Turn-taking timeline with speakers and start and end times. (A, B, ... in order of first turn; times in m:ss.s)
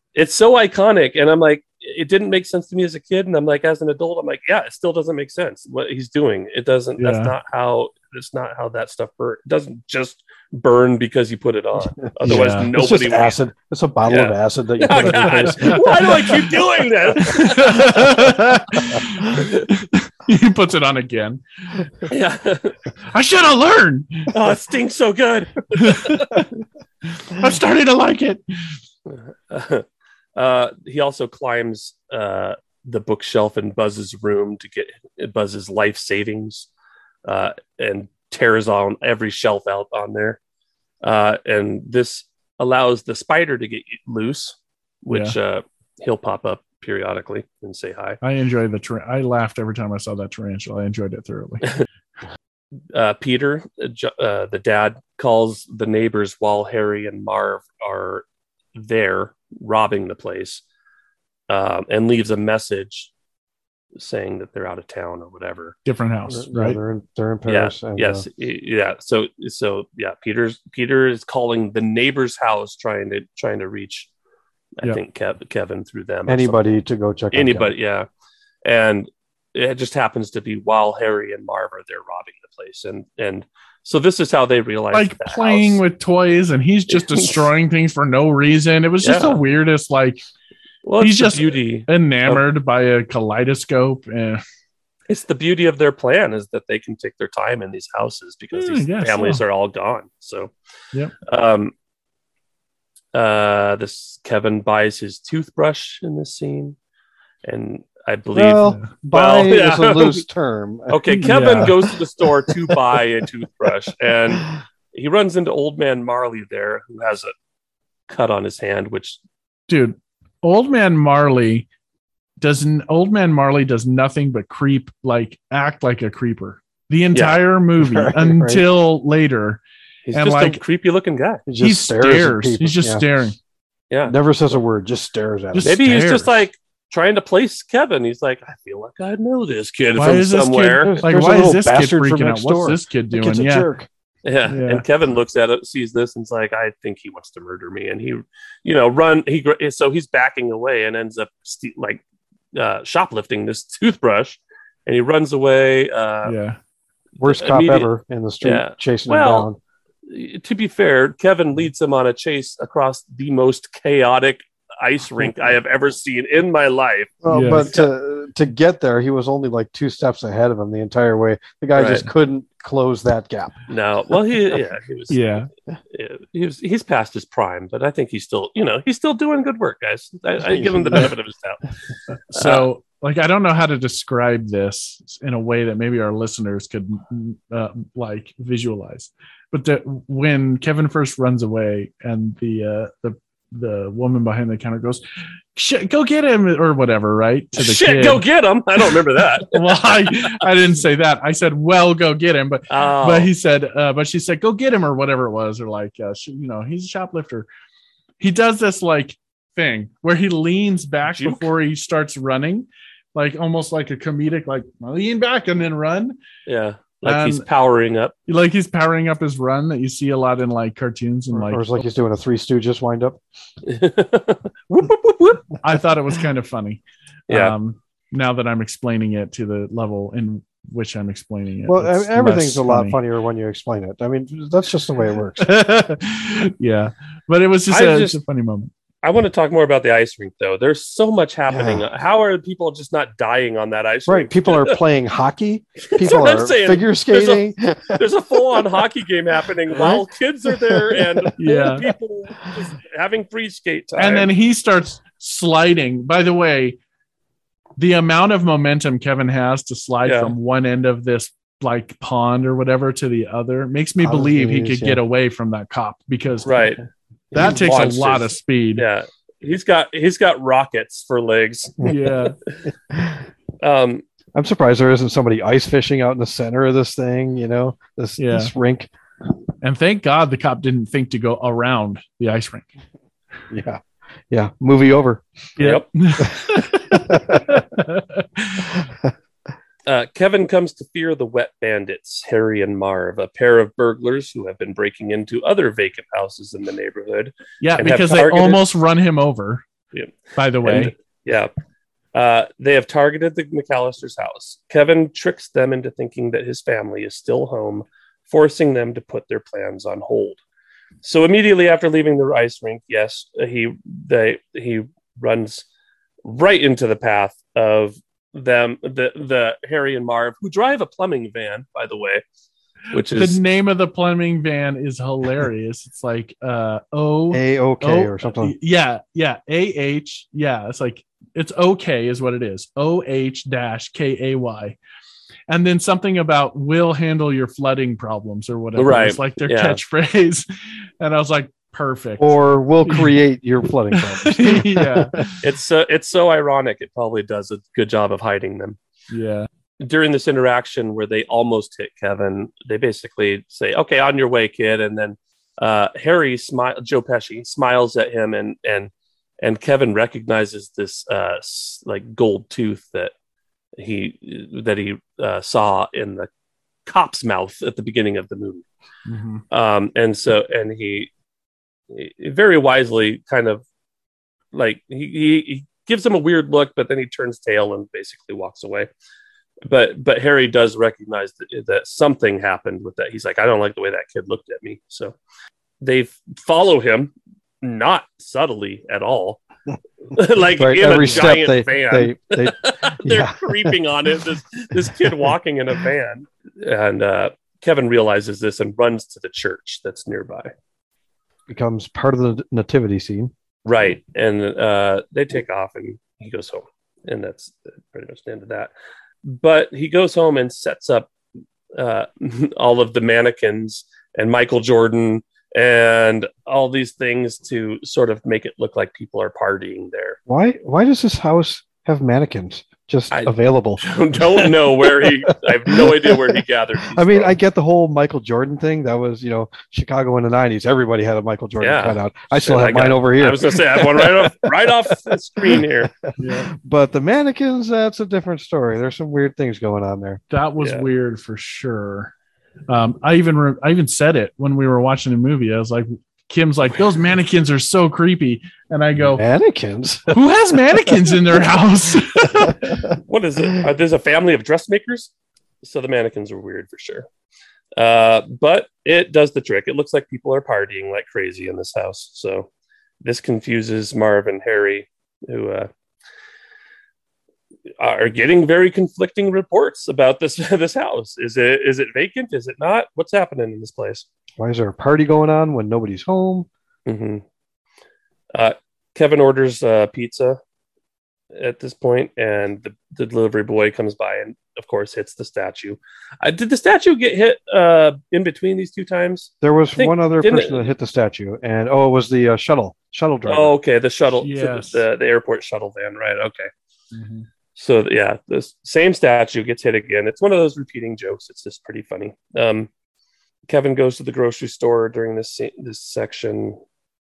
0:00.1-0:13.4 A
0:07.0-0:07.3 B
0:12.0-0:16.4 C
0:12.2-0:12.7 B
0:14.1-0:18.2 A
0:14.9-0:15.8 B
0:17.2-0:21.8 B
0:19.3-0:19.6 A
0:22.1-0:22.8 A
0:23.1-0:24.3 B
0:24.3-0:26.4 A
0:25.8-0:26.5 B
0:27.1-0:28.4 B
0:29.1-0:36.7 A
0:37.2-0:40.4 A
0:41.0-0:48.2 A
0:48.2-0:51.8 B
0:52.9-0:58.2 A
0:58.8-1:00.6 A
1:01.5-1:03.1 A
1:04.0-1:05.8 A
1:05.8-1:06.8 B
1:06.3-1:08.2 C
1:07.5-1:14.1 A
1:14.8-1:16.6 A
1:16.3-1:17.7 C
1:17.3-1:18.1 A
1:18.6-1:25.8 A
1:24.9-1:30.2 B
1:26.9-1:27.4 A
1:29.0-1:29.4 A
1:30.8-1:32.4 A
1:31.0-1:34.4 B
1:35.1-1:40.5 A
1:38.5-1:39.4 B
1:41.2-1:41.7 A
1:43.1-1:46.8 A
1:47.4-1:50.2 A
1:48.3-1:51.7 C
1:48.6-1:48.9 B
1:50.9-1:57.3 A
1:51.1-1:51.7 B
1:58.1-1:59.2 A
1:59.7-2:01.7 B
2:02.4-2:09.6 B
2:07.1-2:07.4 A
2:07.8-2:08.6 C
2:10.0-2:11.4 A
2:10.1-2:10.6 B
2:11.5-2:13.0 C
2:11.6-2:13.4 B
2:14.0-2:15.7 C
2:15.5-2:16.4 B
2:15.6-2:21.0 A
2:19.9-2:23.7 B
2:20.8-2:23.9 C
2:24.2-2:32.0 A
2:24.5-2:24.8 B
2:32.5-2:36.3 A
2:36.2-2:36.6 B
2:37.2-2:39.6 C
2:37.2-2:37.9 A
2:38.4-2:39.5 A
2:40.0-2:47.9 A
2:47.2-2:53.6 C
2:47.3-2:47.7 B
2:51.7-2:52.1 A
2:53.7-3:01.6 A
2:55.1-2:55.5 B
3:00.4-3:01.1 C
3:02.3-3:15.0 B
3:02.3-3:02.7 A
3:15.5-3:18.2 B
3:17.6-3:20.4 A
3:18.8-3:27.5 B
3:22.7-3:23.3 A
3:28.2-3:36.2 B
3:31.0-3:31.5 A
3:36.4-3:38.1 A
3:37.0-3:37.4 B
3:38.3-3:41.8 B
3:41.3-3:43.2 C
3:43.6-3:45.5 A
3:45.6-3:53.0 B
3:47.3-3:47.5 A
3:51.7-3:55.5 C
3:55.4-3:58.7 B
3:57.7-3:58.2 A
3:59.0-4:04.8 A
4:01.5-4:01.8 C
4:04.1-4:08.6 C
4:05.8-4:14.3 A
4:10.5-4:11.3 C
4:11.4-4:11.9 B
4:14.0-4:16.8 B
4:17.8-4:26.6 B
4:20.0-4:20.3 A
4:24.0-4:25.0 C
4:26.4-4:31.9 A
4:27.3-4:28.8 B
4:31.8-4:32.4 B
4:33.6-4:34.0 A
4:34.3-4:38.9 C
4:38.2-4:38.5 B
4:39.6-4:42.7 B
4:43.5-4:45.2 C
4:45.6-4:48.8 B
4:45.6-4:45.9 A
4:46.9-4:47.6 C
4:49.9-4:58.6 A
4:57.6-4:59.6 B
4:59.9-5:01.5 A
5:00.3-5:00.9 B
5:02.1-5:10.4 A
5:11.0-5:15.6 A
5:16.2-5:22.2 A
5:22.9-5:23.4 A
5:23.1-5:34.8 B
5:27.3-5:28.5 C
5:35.5-5:40.4 B
5:38.8-5:39.8 A
5:41.0-5:43.2 B
5:42.2-5:45.2 C
5:43.9-5:45.4 B
5:45.4-5:48.8 A
5:49.1-5:49.5 B
5:49.8-6:03.1 A
6:03.8-6:06.3 A
6:06.8-6:08.6 A
6:09.1-6:09.4 B
6:09.5-6:11.1 A
6:11.9-6:13.6 A
6:14.5-6:18.9 A
6:19.6-6:25.2 A
6:25.8-6:29.4 A
6:30.1-6:40.5 A
6:30.6-6:33.7 C
6:41.5-6:43.3 C
6:43.6-6:48.7 A
6:49.2-6:51.1 A
6:51.7-7:00.2 A
7:00.3-7:06.4 C
7:03.1-7:07.4 A
7:06.9-7:14.9 C
7:11.6-7:15.9 A
7:15.4-7:20.2 C
7:16.2-7:16.5 B
7:20.3-7:22.1 B
7:20.6-7:20.8 A
7:22.7-7:29.2 B
7:29.0-7:30.2 C
7:30.1-7:32.9 B
7:33.0-7:35.1 A
7:35.6-7:37.1 A
7:37.8-7:42.5 A
7:43.0-7:45.7 A
7:47.8-7:54.0 A
7:54.4-7:56.5 C
7:56.8-7:57.2 A
7:58.3-8:00.4 A
8:01.3-8:10.6 A
8:09.4-8:13.5 C
8:13.2-8:16.5 A
8:14.2-8:14.8 B
8:16.9-8:17.3 B
8:17.6-8:22.7 A
8:23.5-8:26.6 A